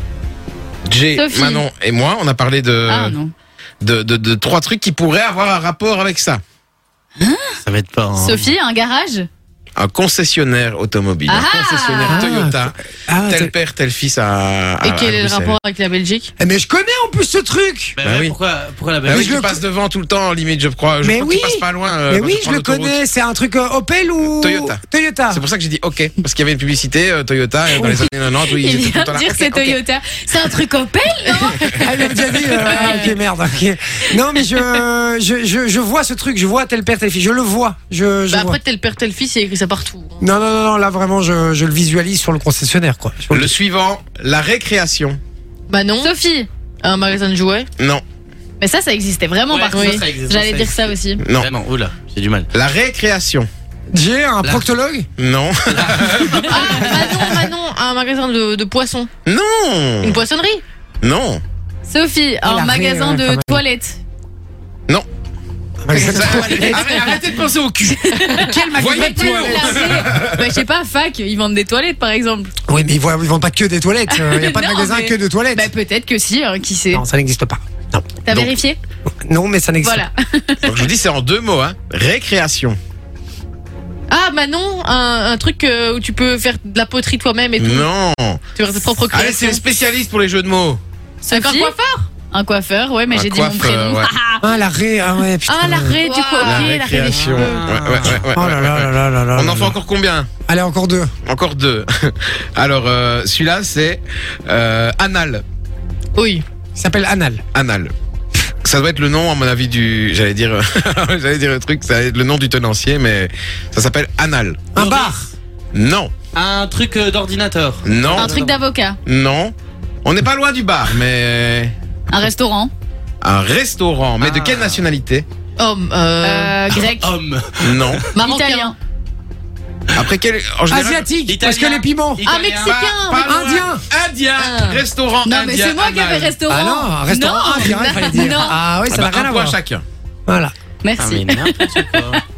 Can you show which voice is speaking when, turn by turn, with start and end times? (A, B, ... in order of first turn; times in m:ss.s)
0:00.8-0:03.2 A
0:01.1-0:01.6 B
0:02.9-0:03.3 B
0:03.8-0:06.4 A
0:07.2-0:07.6 B
0:07.6-0:08.5 C
0:08.2-0:09.3 B
0:09.8-0:15.6 A
0:11.3-0:12.2 B
0:12.1-0:13.5 D
0:14.8-0:16.3 E
0:16.4-0:18.0 D
0:18.0-0:19.4 C
0:18.0-0:18.3 A
0:19.0-0:19.6 D
0:19.1-0:23.0 A
0:21.0-0:25.4 D
0:24.3-0:24.8 A
0:25.3-0:29.8 A
0:27.8-0:28.1 D
0:28.4-0:33.2 B
0:31.3-0:31.8 E
0:31.7-0:38.6 D
0:32.7-0:33.0 E
0:38.3-0:40.2 E
0:40.2-0:43.5 D
0:43.3-0:45.2 A
0:45.7-0:46.1 E
0:46.0-0:46.5 B
0:46.8-0:47.7 E
0:48.6-0:51.2 B
0:49.5-0:52.5 C
0:49.7-0:50.0 E
0:51.2-0:51.5 A
0:52.5-0:53.5 A
0:53.9-0:55.1 D
0:54.4-0:54.7 C
0:55.2-0:57.2 A
0:55.7-0:56.8 C
0:56.5-0:59.1 E
0:59.2-1:00.2 A
1:00.0-1:00.6 E
1:01.0-1:01.4 A
1:01.9-1:04.0 B
1:02.4-1:03.6 D
1:05.8-1:07.1 D
1:05.9-1:10.3 A
1:06.1-1:06.9 E
1:08.0-1:12.5 B
1:08.3-1:10.0 D
1:12.7-1:15.7 D
1:14.1-1:17.0 B
1:16.9-1:18.1 D
1:18.2-1:18.8 B
1:19.2-1:20.0 D
1:19.8-1:20.9 B
1:20.6-1:22.8 A
1:24.1-1:27.9 E
1:27.6-1:28.4 A
1:28.6-1:29.6 E
1:29.1-1:30.8 A
1:31.2-1:34.4 B
1:31.2-1:32.1 E
1:33.1-1:34.1 A
1:34.4-1:36.0 D
1:35.5-1:37.7 E
1:36.0-1:36.7 B
1:36.4-1:37.6 C
1:36.5-1:36.7 A
1:37.1-1:39.7 D
1:37.3-1:40.3 A
1:40.5-1:41.1 D
1:41.2-1:45.4 A
1:46.2-1:46.4 E
1:46.8-1:47.4 D
1:47.5-1:47.9 A
1:48.6-1:54.6 A
1:54.7-1:55.3 D
1:54.8-1:55.2 C
1:55.7-1:56.1 A
1:56.3-1:58.6 C
1:57.8-1:58.4 A
1:58.2-1:59.0 B
1:59.0-1:59.5 A
2:00.0-2:01.7 A
2:02.1-2:02.7 B
2:03.2-2:05.2 A
2:04.2-2:04.9 C
2:05.6-2:06.6 E
2:06.2-2:07.1 B
2:06.7-2:08.1 C
2:07.6-2:08.0 A
2:08.1-2:08.7 E
2:08.2-2:08.8 B
2:09.9-2:11.1 A
2:10.7-2:12.2 D
2:11.3-2:12.8 C
2:12.2-2:13.3 E
2:12.6-2:16.4 A
2:13.2-2:13.8 D
2:14.4-2:14.8 E
2:15.2-2:18.6 B
2:16.5-2:19.6 D
2:17.4-2:18.4 E
2:18.9-2:19.8 A
2:20.3-2:20.5 D
2:20.8-2:21.8 B
2:21.0-2:22.2 C